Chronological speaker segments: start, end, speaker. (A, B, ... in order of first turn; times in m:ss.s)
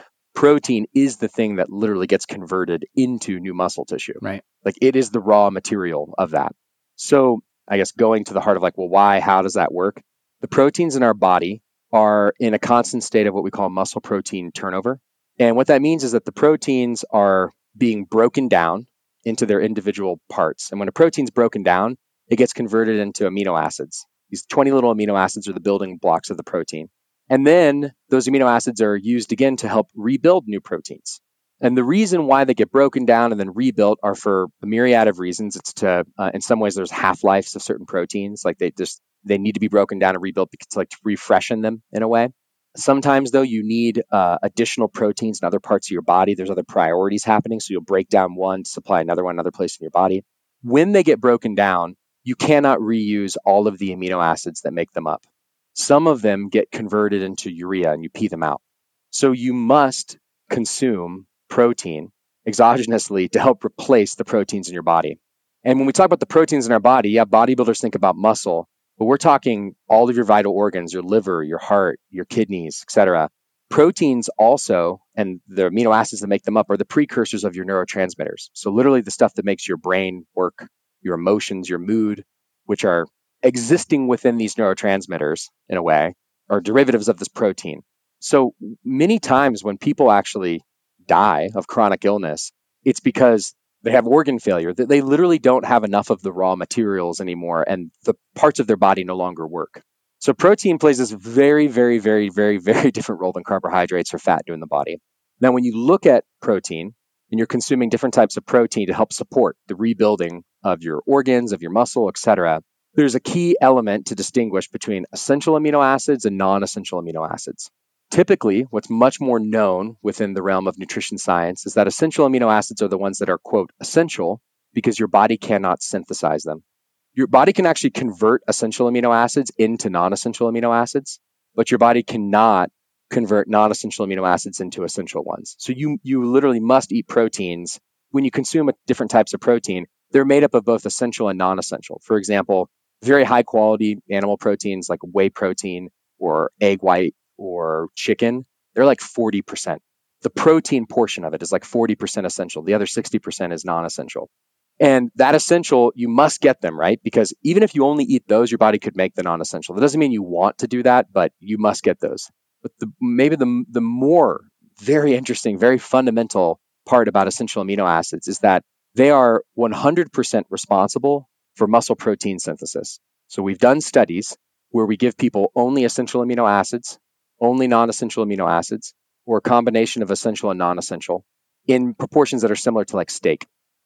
0:00.3-0:58.6 A
0:59.1-2:06.6 A
2:07.2-2:34.3 A
2:34.8-3:03.5 A